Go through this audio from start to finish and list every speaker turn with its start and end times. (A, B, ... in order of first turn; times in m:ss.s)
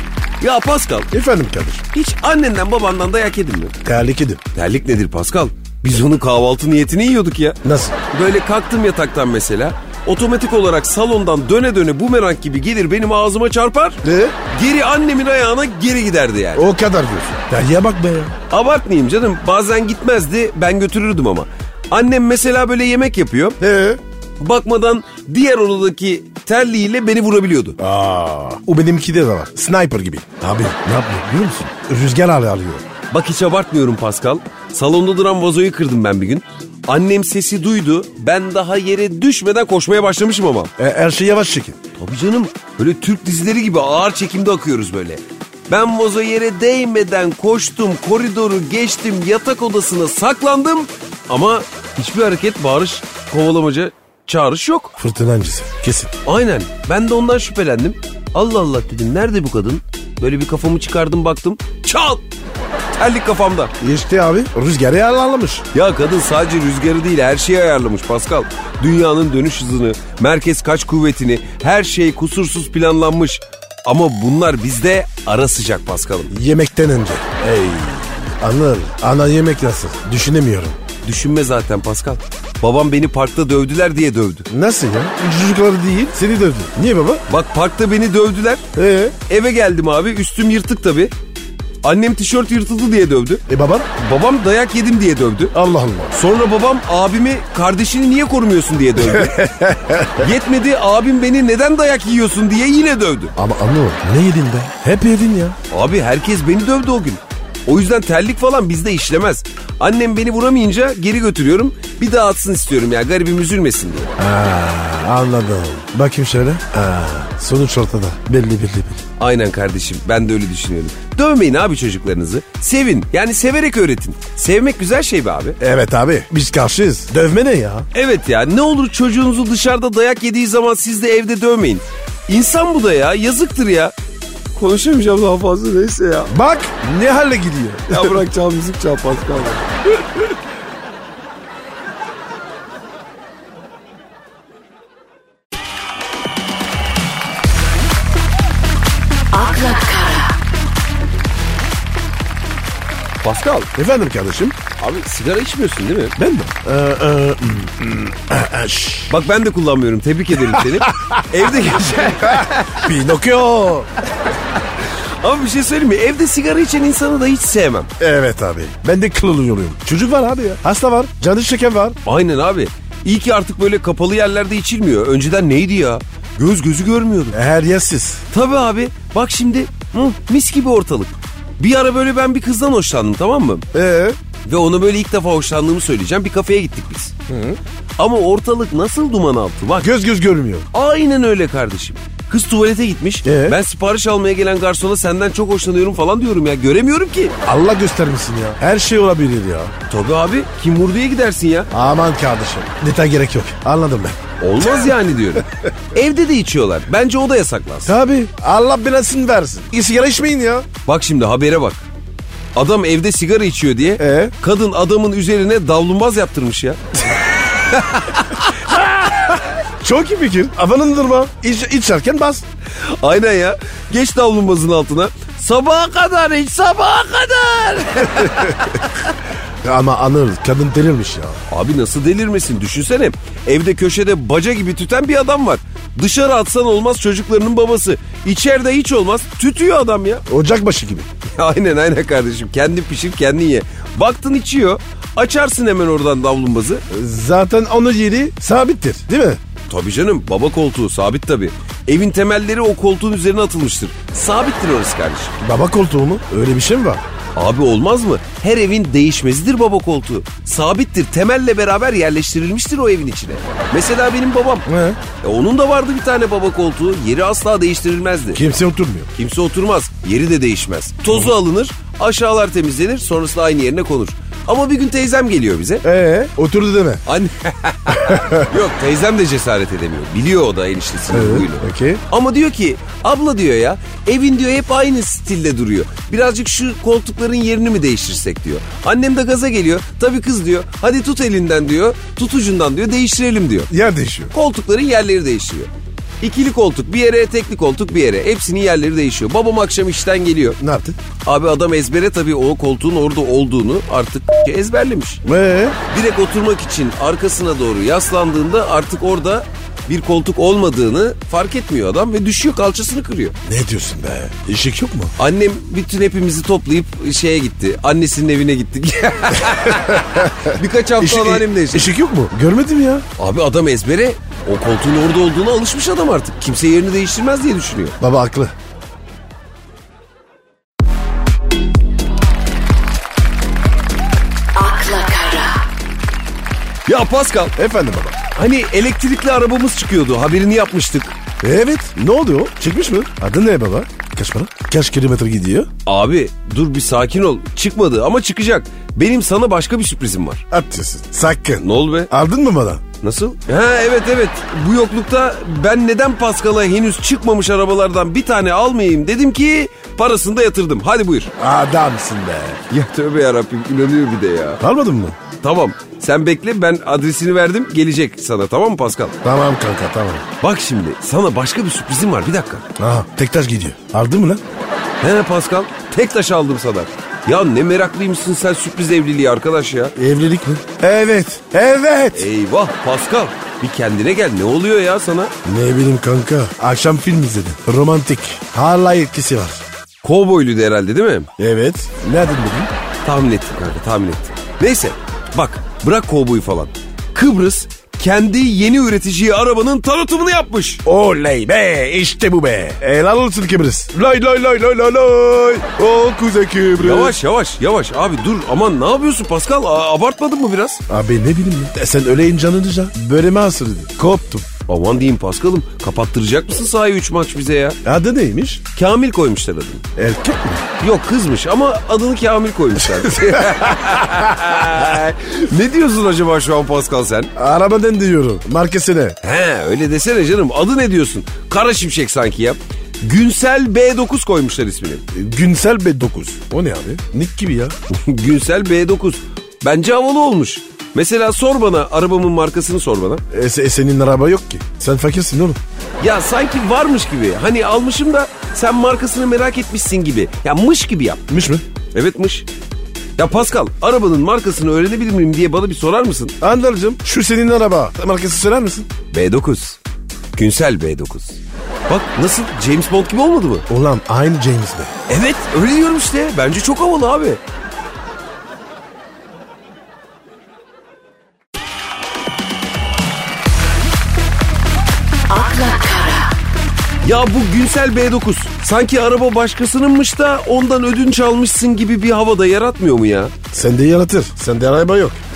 0:00.4-0:01.1 A
0:01.1-0:01.8 B
0:01.9-0:03.7 A
0:03.8-0:04.4 B
0:04.5-0:07.6 A
0:07.6-0:08.0 B
0:08.1-0:16.6 A
0:14.0-0:14.4 B
0:16.5-0:18.4 B
0:18.5-0:23.6 A
0:23.6-0:24.0 B
0:24.4-0:27.8 A
0:27.8-0:32.8 B
0:33.1-0:40.7 A
0:40.8-0:41.8 B
0:42.0-0:54.9 A
0:55.0-0:56.1 B
0:56.2-1:02.2 A
1:03.0-1:03.7 A
1:03.8-1:05.6 B
1:05.7-1:16.3 A
1:16.3-1:20.8 B
1:21.0-1:24.5 A
1:24.5-1:27.2 B
1:27.3-1:28.6 A
1:28.7-1:29.2 B
1:29.3-1:31.1 A
1:31.8-1:33.4 A
1:33.5-1:33.9 B
1:34.0-1:35.5 A
1:35.5-1:36.1 B
1:36.1-1:39.4 A
1:39.0-1:40.3 B
1:40.1-1:43.3 A
1:43.4-1:45.6 B
1:45.7-1:54.1 A
1:54.2-1:59.0 B
1:59.2-2:05.6 A
2:05.6-2:07.9 B
2:07.9-2:13.9 A
2:14.5-2:16.3 A
2:16.3-2:18.2 B
2:17.9-2:19.7 A
2:29.3-2:30.4 C
2:33.2-2:33.7 A
2:33.7-2:34.6 B
2:34.8-2:36.2 A
2:36.2-2:39.1 B
2:39.1-2:42.9 A
2:40.5-2:43.9 B
2:44.6-2:47.9 A
2:48.0-2:52.0 B
2:52.0-2:57.4 A
2:57.3-2:58.2 B
2:58.3-3:03.6 A
3:03.7-3:04.2 B
3:04.4-3:07.1 A
3:07.3-3:07.6 B
3:08.0-3:09.9 A
3:09.8-3:10.7 B
3:10.7-3:17.3 A
3:13.2-3:13.6 B
3:17.4-3:19.7 B
3:19.9-3:21.7 A
3:21.7-3:24.9 B
3:24.4-3:27.9 A
3:27.8-3:30.7 B
3:30.8-3:31.8 A
3:32.5-3:38.6 A
3:34.0-3:34.3 B
3:38.6-3:42.4 B
3:42.8-3:49.1 A
3:48.2-3:48.6 B
3:49.6-3:51.4 B
3:51.5-4:00.2 A
4:00.3-4:01.1 B
4:01.2-4:06.8 A
4:06.9-4:09.4 B
4:09.7-4:15.3 A
4:15.4-4:17.0 B
4:17.3-4:24.7 A
4:24.7-4:25.0 B
4:25.2-4:28.4 A
4:28.3-4:29.1 B
4:29.1-4:35.8 A
4:35.8-4:37.0 B
4:37.0-4:53.7 A
4:37.9-4:38.5 B
4:41.1-4:42.0 B
4:53.7-4:54.3 B
4:54.3-4:55.7 A
4:56.2-5:00.6 A
5:00.6-5:01.0 B
5:01.2-5:05.2 A
5:05.2-5:05.8 B
5:05.9-5:13.3 A
5:13.4-5:15.1 B
5:15.2-5:21.9 A
5:19.7-5:23.0 B
5:23.2-5:28.0 A
5:28.0-5:28.5 B
5:34.5-5:35.6 C
5:36.8-5:37.5 A
5:37.6-5:38.2 B
5:38.3-5:41.1 A
5:41.4-5:45.7 B
5:45.8-5:50.4 A
5:50.5-5:52.8 B
5:51.6-5:52.1 A
5:53.0-6:01.3 A
6:01.4-6:02.6 B
6:02.7-6:04.6 A
6:04.6-6:05.2 B
6:05.4-6:09.2 A
6:09.2-6:10.2 B
6:10.4-6:12.6 A
6:12.8-6:14.4 B
6:15.0-6:20.0 A
6:20.0-6:22.3 B
6:22.1-6:25.3 A
6:25.4-6:29.6 B
6:30.0-6:31.3 A
6:31.4-6:32.7 B
6:33.0-6:40.8 A
6:40.8-6:47.2 B
6:46.8-6:50.8 A
6:50.9-6:54.5 B
6:54.7-6:57.8 A
6:57.8-6:58.6 B
6:58.7-6:59.8 A
7:00.0-7:00.7 B
7:00.8-7:07.3 A
7:03.0-7:04.8 B
7:07.4-7:09.2 B
7:09.2-7:15.0 A
7:15.1-7:17.7 B
7:17.9-7:23.2 A
7:23.3-7:25.6 B
7:26.0-7:31.3 A
7:31.3-7:31.6 B
7:31.9-7:32.5 A
7:33.2-7:36.4 A
7:36.4-7:38.9 B
7:39.1-7:39.8 A
7:40.3-7:43.6 A
7:43.7-7:44.9 B
7:45.1-7:47.4 A
7:55.3-7:56.4 C
7:57.0-8:03.3 A
8:03.5-8:05.2 B